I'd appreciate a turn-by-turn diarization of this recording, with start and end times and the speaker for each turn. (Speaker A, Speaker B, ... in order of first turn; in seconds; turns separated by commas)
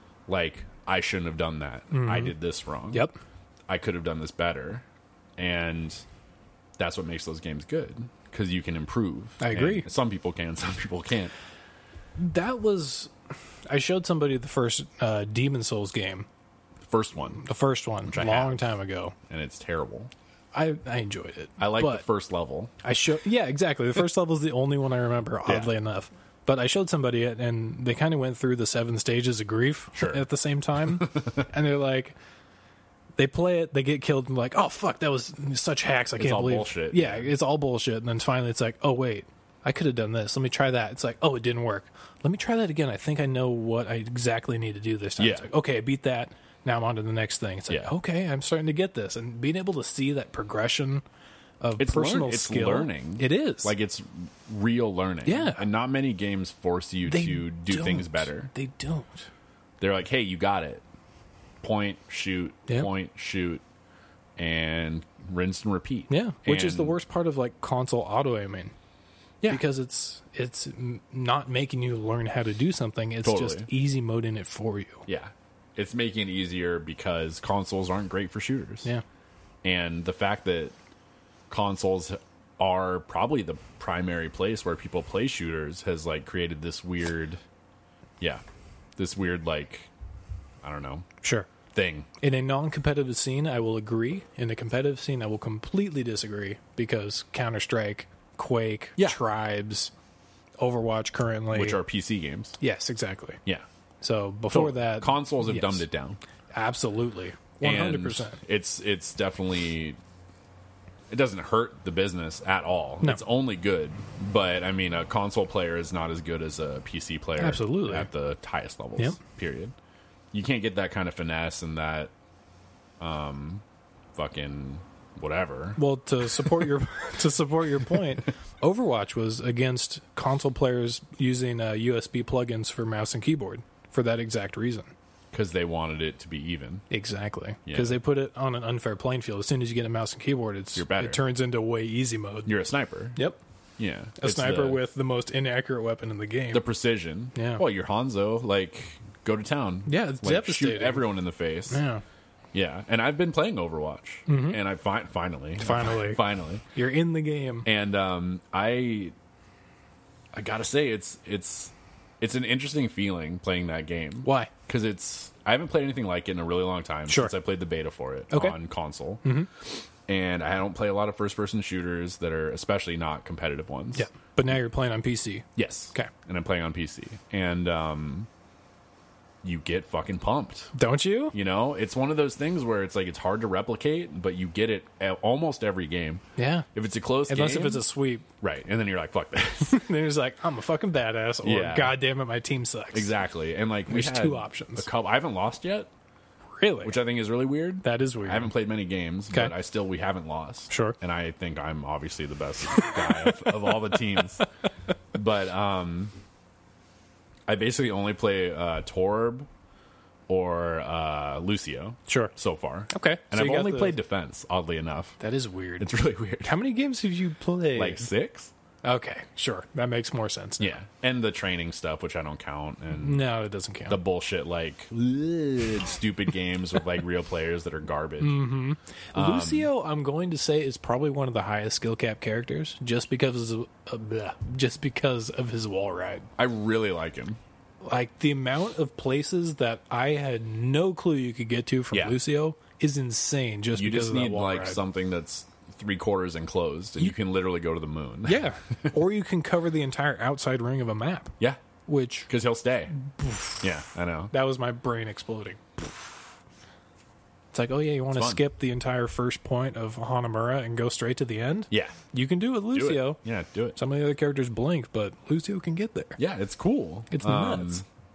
Speaker A: 0.3-3.1, Speaker B: 1.9-2.4, Speaker A: 3.7-4.8, Speaker A: 5.4-6.0, Speaker A: 6.8-11.3, Speaker B: 9.4-9.9, Speaker B: 12.2-13.1, Speaker B: 13.7-16.3, Speaker A: 16.8-17.4, Speaker B: 17.4-19.1, Speaker A: 18.1-18.7, Speaker A: 19.3-20.1, Speaker B: 20.5-22.1, Speaker A: 21.6-22.7, Speaker B: 22.8-32.1, Speaker A: 25.4-25.7, Speaker A: 29.9-30.2, Speaker A: 31.0-31.4, Speaker B: 33.2-51.0, Speaker A: 36.2-37.3, Speaker A: 45.2-45.5, Speaker B: 51.6-53.7, Speaker A: 51.8-58.5, Speaker B: 55.2-55.6, Speaker B: 57.0-59.3, Speaker A: 59.8-60.8, Speaker A: 61.6-63.6, Speaker A: 64.4-67.0, Speaker B: 66.1-68.7, Speaker B: 69.5-75.1, Speaker A: 73.2-73.7, Speaker A: 75.1-78.9, Speaker A: 79.6-80.8, Speaker A: 81.5-87.4, Speaker A: 89.0-89.9, Speaker A: 90.6-91.1, Speaker B: 91.2-91.5, Speaker A: 91.7-92.1, Speaker B: 92.2-99.9, Speaker B: 100.6-101.8, Speaker A: 101.5-102.6, Speaker B: 102.6-103.4, Speaker B: 104.0-105.9, Speaker A: 104.5-106.2, Speaker B: 106.5-108.4, Speaker A: 107.6-110.0, Speaker A: 111.1-119.8, Speaker B: 117.4-118.1, Speaker A: 120.3-122.1, Speaker A: 123.0-126.6, Speaker B: 125.8-134.9, Speaker A: 135.3-136.8, Speaker B: 136.9-142.6, Speaker A: 137.7-138.0, Speaker A: 140.7-141.2, Speaker A: 142.4-143.2, Speaker A: 143.8-144.8, Speaker B: 144.2-146.7, Speaker A: 146.5-151.8, Speaker B: 147.3-147.6, Speaker B: 149.9-151.1, Speaker B: 151.7-152.0, Speaker A: 152.5-156.6, Speaker B: 154.3-154.6, Speaker B: 155.6-157.7, Speaker A: 157.6-159.1, Speaker A: 160.3-169.2, Speaker B: 164.2-164.5, Speaker B: 167.1-167.3, Speaker B: 168.3-168.6, Speaker B: 169.2-169.5, Speaker A: 170.1-174.1, Speaker B: 173.9-176.1, Speaker A: 175.6-178.3, Speaker A: 179.4-180.7, Speaker B: 180.8-181.3, Speaker A: 181.3-186.2, Speaker B: 186.4-186.7, Speaker A: 186.8-187.9, Speaker B: 187.3-188.2, Speaker A: 188.4-189.9, Speaker B: 189.6-193.1, Speaker A: 191.4-192.0, Speaker A: 192.9-195.9, Speaker B: 193.9-194.9, Speaker B: 196.6-196.9, Speaker A: 196.8-204.4, Speaker B: 197.8-198.5, Speaker B: 200.7-200.9, Speaker A: 205.1-206.1, Speaker A: 207.5-209.5, Speaker A: 210.3-215.2, Speaker B: 212.1-212.3, Speaker B: 212.9-214.0, Speaker B: 215.2-215.9, Speaker A: 215.8-216.6, Speaker B: 216.4-218.1, Speaker A: 217.7-218.5, Speaker B: 218.8-220.8, Speaker A: 220.6-223.3, Speaker B: 223.0-224.0, Speaker A: 223.9-228.4, Speaker B: 228.2-236.3, Speaker A: 229.1-229.7, Speaker A: 236.4-237.4, Speaker B: 237.8-244.8, Speaker A: 241.9-242.2, Speaker A: 243.8-248.9, Speaker B: 248.3-251.4, Speaker B: 251.9-252.3, Speaker A: 252.3-252.9, Speaker B: 253.0-253.6, Speaker A: 253.6-254.3, Speaker B: 254.3-256.1, Speaker B: 257.5-263.2, Speaker A: 258.1-258.4, Speaker A: 261.7-262.0, Speaker A: 262.7-263.8, Speaker B: 263.8-266.2, Speaker A: 266.2-267.9, Speaker B: 267.1-267.8